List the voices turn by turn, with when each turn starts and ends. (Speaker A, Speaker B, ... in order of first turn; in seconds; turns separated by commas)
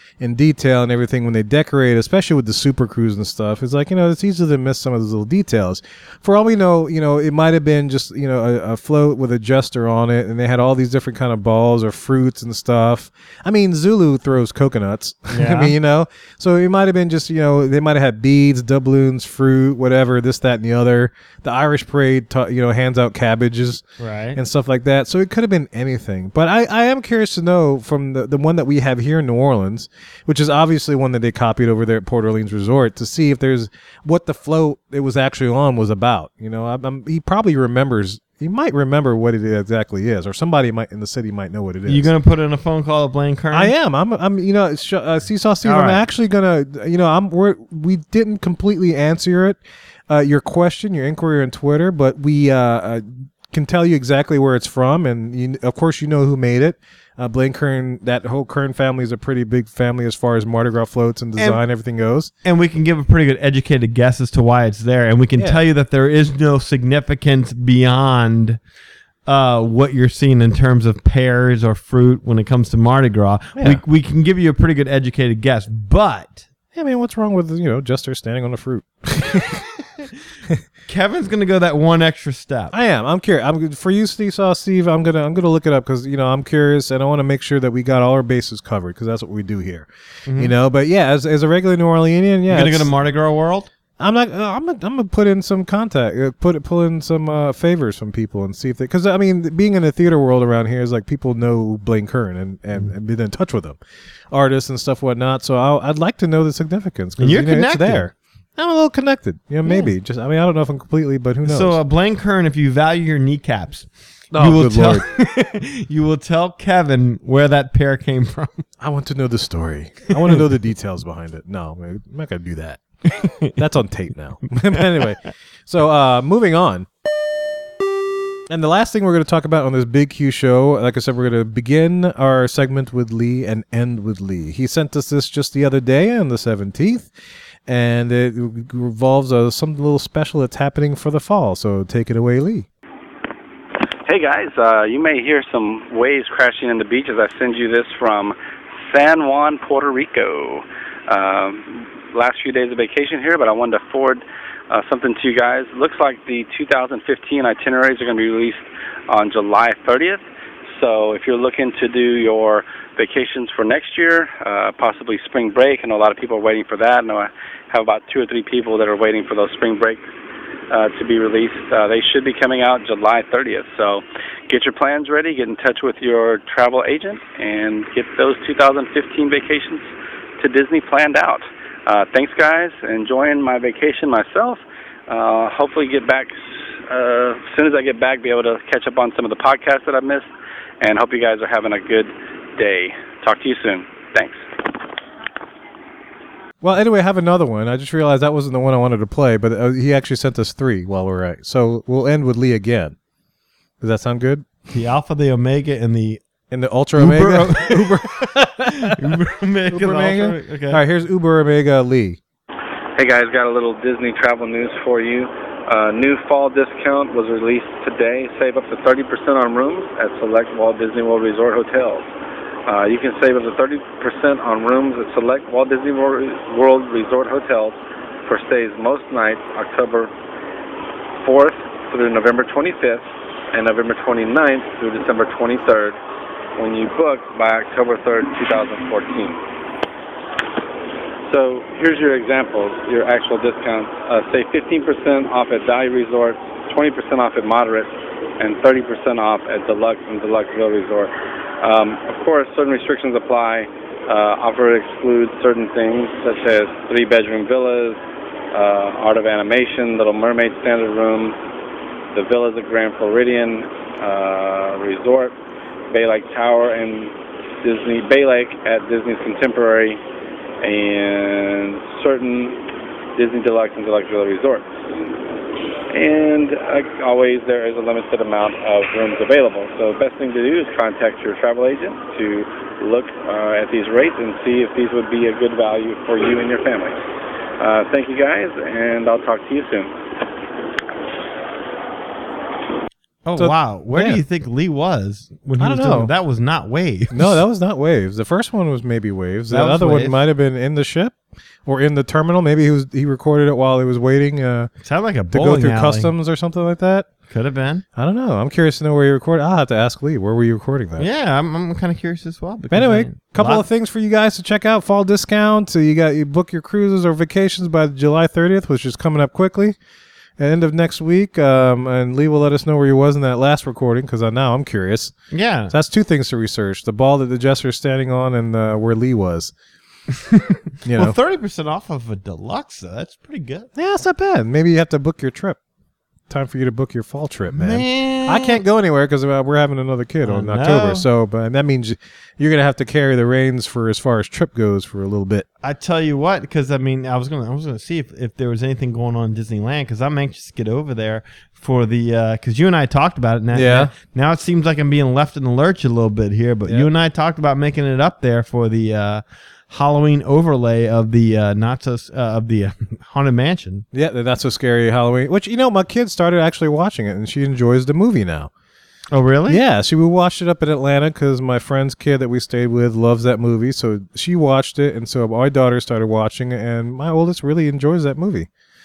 Speaker A: 0.2-23.8, Speaker B: 15.3-15.8, Speaker B: 24.0-24.4, Speaker A: 24.4-42.1, Speaker B: 41.9-43.7, Speaker A: 43.5-62.3, Speaker B: 45.6-46.0, Speaker B: 62.4-68.6, Speaker B: 69.3-76.5, Speaker A: 76.8-79.7, Speaker B: 80.9-82.7, Speaker A: 82.7-92.9, Speaker B: 90.3-90.5, Speaker B: 92.5-93.7, Speaker A: 94.0-103.8, Speaker A: 104.3-111.8, Speaker B: 107.2-108.0, Speaker B: 109.7-109.9, Speaker B: 111.5-118.7, Speaker A: 114.3-115.0, Speaker A: 118.8-122.8, Speaker B: 123.1-123.5, Speaker A: 123.4-126.9, Speaker B: 124.7-125.1, Speaker A: 128.5-137.1, Speaker A: 137.7-142.7, Speaker C: 144.1-148.4, Speaker C: 148.9-160.2, Speaker C: 160.8-170.0, Speaker C: 170.7-179.9, Speaker C: 180.4-190.3, Speaker C: 190.8-194.4, Speaker A: 196.6-203.0, Speaker A: 203.8-204.5, Speaker B: 204.7-206.2, Speaker A: 206.5-209.2, Speaker B: 207.0-210.8, Speaker A: 209.7-212.2, Speaker C: 213.0-222.0, Speaker C: 222.7-230.1, Speaker C: 231.2-236.0, Speaker C: 236.6-239.4, Speaker C: 241.3-258.0, Speaker C: 258.5-261.4, Speaker C: 262.1-265.3, Speaker C: 265.9-270.0, Speaker C: 270.6-272.6, Speaker C: 273.2-274.6, Speaker C: 275.9-286.9, Speaker C: 287.6-289.9, Speaker B: 293.2-297.4, Speaker A: 293.4-294.2, Speaker A: 295.6-296.1, Speaker A: 297.1-304.7, Speaker B: 299.5-300.2, Speaker B: 304.8-306.1, Speaker A: 305.3-307.1, Speaker B: 307.3-307.9, Speaker A: 308.0-311.1, Speaker B: 311.0-313.6, Speaker A: 312.7-319.8, Speaker A: 320.4-325.1, Speaker B: 325.3-325.7, Speaker A: 325.7-329.5, Speaker B: 330.2-333.7, Speaker A: 330.9-331.2, Speaker A: 333.8-335.6, Speaker A: 336.3-345.5, Speaker B: 337.5-338.6, Speaker B: 340.2-341.1, Speaker B: 345.6-363.9, Speaker A: 353.5-353.9, Speaker A: 363.9-368.5, Speaker B: 369.1-369.6, Speaker A: 369.5-378.5